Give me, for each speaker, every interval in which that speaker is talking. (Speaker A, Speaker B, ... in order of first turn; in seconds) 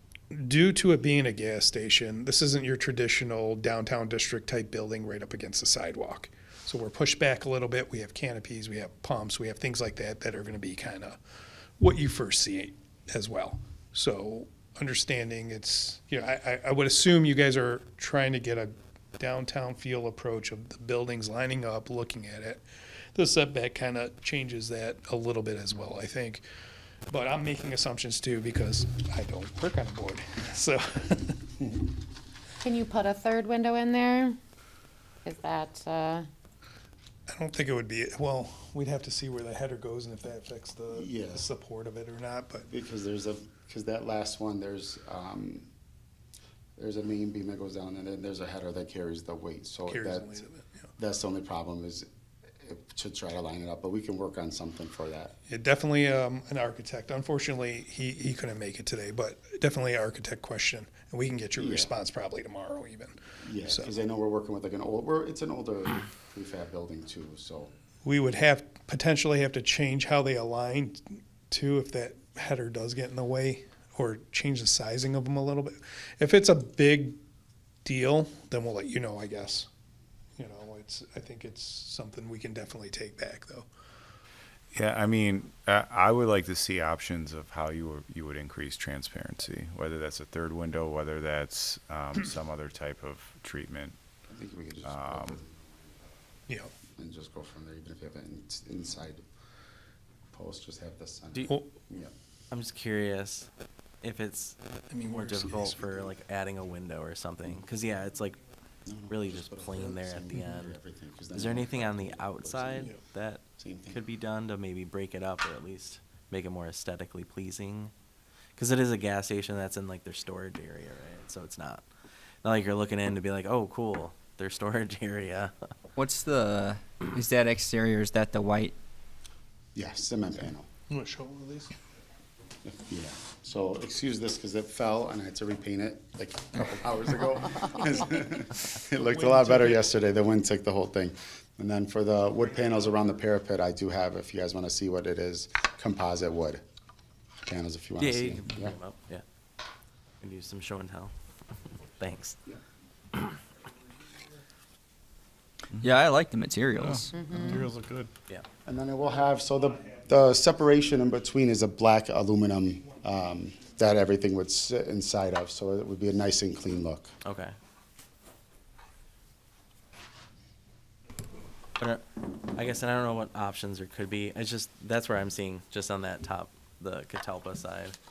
Speaker A: 0.3-11.2, 11.8-26.4, 27.1-31.4, 37.3-42.7, 49.9-50.9, 55.5-64.0, 68.0-77.2, 77.8-79.7, 80.4-83.7, 104.9-106.1, 130.9-131.7, 139.0-139.9
Speaker B: 32.6-34.4, 35.2-36.3, 157.1-157.6
Speaker C: 40.9-41.5, 42.7-45.7, 46.8-50.5, 51.0-52.1, 52.6-55.3, 61.6-61.9, 63.4-67.7, 94.3-96.0, 97.0-99.2, 100.3-102.1, 108.8-112.9, 113.6-114.0, 129.7-130.7, 132.6-146.6, 147.4-148.8, 158.6-167.1
Speaker D: 84.7-94.0, 94.8-95.4, 157.5-158.1
Speaker E: 102.5-103.5, 104.0-108.4, 109.1-110.8, 111.3-117.9, 118.5-121.8, 122.4-125.7, 148.0-149.2, 150.2-151.1, 152.0-152.4, 167.2-167.5, 171.8-178.0
Speaker F: 126.0-128.7, 155.8-157.6